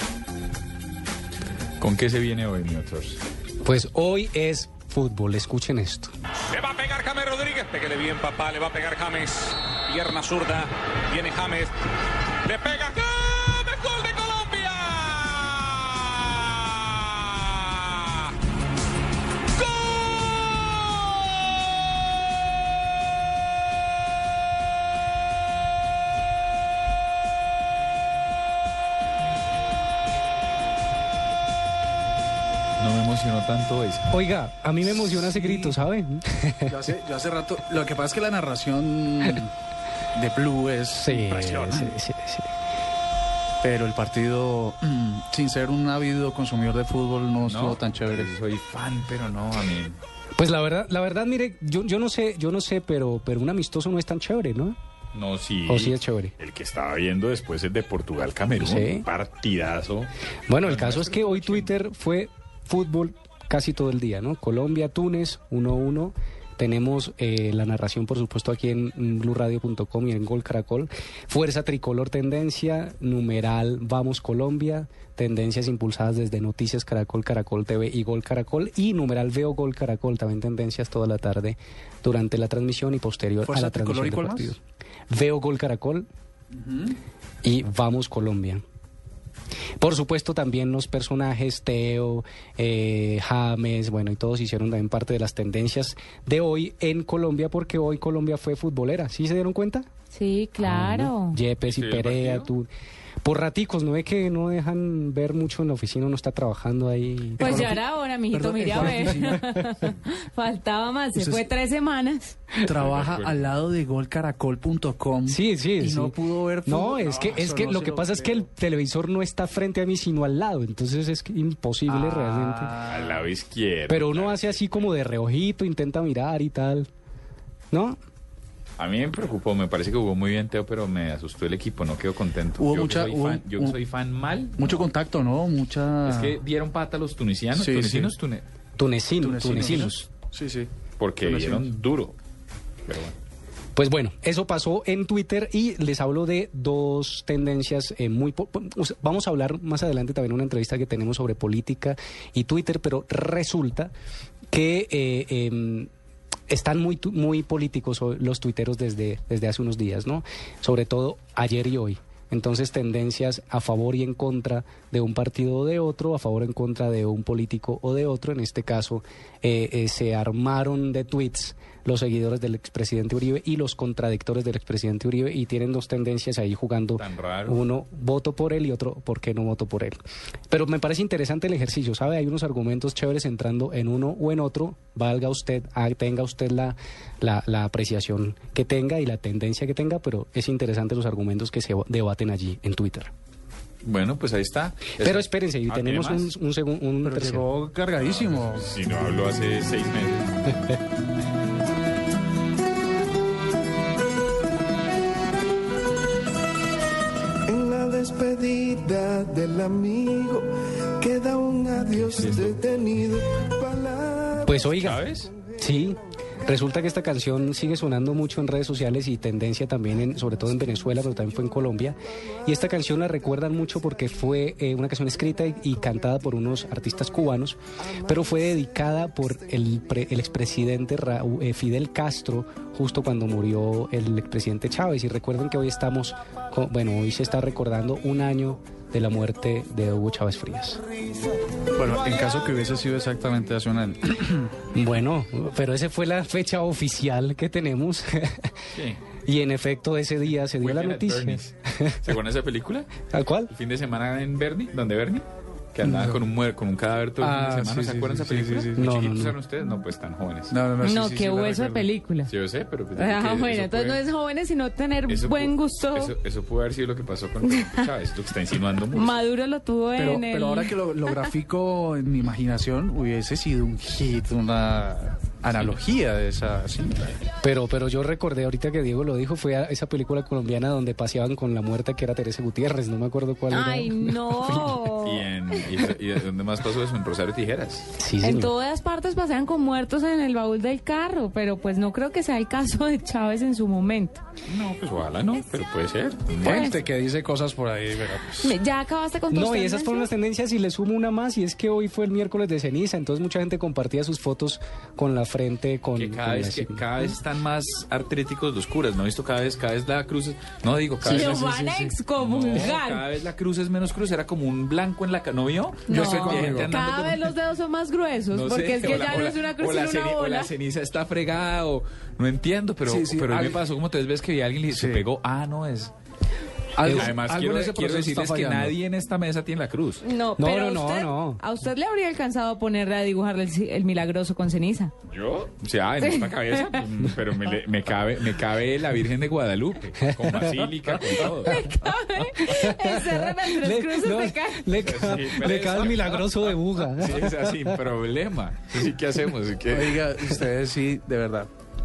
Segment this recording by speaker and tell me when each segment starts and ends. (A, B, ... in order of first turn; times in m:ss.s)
0:01.8-0:03.2 A
0:03.6-0:06.1 B
0:06.5-0:11.7 C
0:12.4-0:18.3 C
0:32.8-0:34.1 A
0:34.1-0:36.8 B
0:34.8-0:35.7 D
0:36.7-0:39.5 D
0:40.1-0:41.9 D
0:40.9-0:42.5 B
0:41.3-0:41.6 C
0:43.6-0:48.3 D
0:47.4-0:50.0 A
0:50.4-0:54.8 B
0:55.1-1:01.7 A
0:55.7-0:56.3 B
0:58.6-0:59.0 B
1:00.5-1:26.1 B
1:23.5-1:24.5 E
1:26.6-1:27.0 E
1:27.4-1:28.6 B
1:29.8-1:39.9 B
1:40.1-1:41.4 F
1:40.6-1:42.7 B
1:41.6-1:42.5 A
1:43.2-1:47.8 B
1:47.4-1:52.6 F
1:47.4-1:49.4 D
1:48.8-1:49.6 B
1:51.1-1:51.5 D
1:52.6-1:53.6 A
1:52.7-1:58.4 D
1:55.3-2:02.8 B
1:55.9-1:56.4 E
1:56.9-1:57.6 E
2:01.9-2:03.0 D
2:02.9-2:04.9 A
2:03.9-2:06.9 B
2:07.7-2:08.0 B
2:08.8-2:14.8 A
2:12.6-2:13.8 D
2:14.6-2:16.3 D
2:16.0-2:18.4 A
2:17.6-2:18.1 D
2:18.8-2:20.1 B
2:19.2-2:20.7 D
2:21.0-2:22.2 A
2:21.2-2:21.7 D
2:22.9-2:23.2 A
2:23.8-2:33.9 B
2:34.5-2:35.9 B
2:36.5-3:00.0 B
2:57.0-2:57.6 A
3:00.5-3:13.1 B
3:13.8-3:16.3 A
3:15.0-3:17.4 B
3:17.0-3:18.7 D
3:18.0-3:20.6 A
3:27.5-3:34.4 E
3:32.0-3:32.6 A
3:34.4-4:00.8 B
3:34.8-3:35.3 A
4:01.8-4:03.6 D
4:03.0-4:04.2 E
4:04.7-4:08.5 B
4:08.7-4:09.0 A
4:09.2-4:12.0 B
4:10.6-4:12.9 A
4:13.1-4:13.5 B
4:13.5-4:20.6 A
4:15.9-4:16.2 D
4:17.2-4:18.8 D
4:18.8-4:19.3 B
4:20.5-4:21.9 D
4:20.8-4:22.3 F
4:22.3-4:24.0 A
4:22.9-4:26.1 F
4:25.1-4:29.2 A
4:27.5-4:27.8 F
4:28.9-4:31.3 F
4:30.0-4:37.1 D
4:37.4-4:44.8 B
4:43.5-4:45.3 F
4:45.0-4:47.9 A
4:48.0-4:48.5 B
4:48.2-4:54.2 F
4:54.4-4:56.8 A
4:56.4-4:56.8 F
4:56.4-4:58.6 D
4:58.4-5:00.1 F
4:59.3-5:07.1 B
5:06.0-5:11.6 A
5:11.0-5:13.0 F
5:11.2-5:11.6 E
5:12.1-5:17.4 A
5:15.9-5:20.5 F
5:15.9-5:16.8 D
5:18.3-5:25.9 A
5:22.8-5:23.6 D
5:24.7-5:25.1 D
5:26.8-5:28.7 D
5:26.8-5:27.1 B
5:26.9-5:30.0 A
5:30.0-5:34.9 F
5:30.4-5:31.4 B
5:35.1-5:42.4 A
5:36.0-5:36.8 F
5:40.0-5:41.2 B
5:41.1-5:44.8 F
5:42.4-5:47.8 B
5:44.7-5:50.4 A
5:49.7-5:51.5 D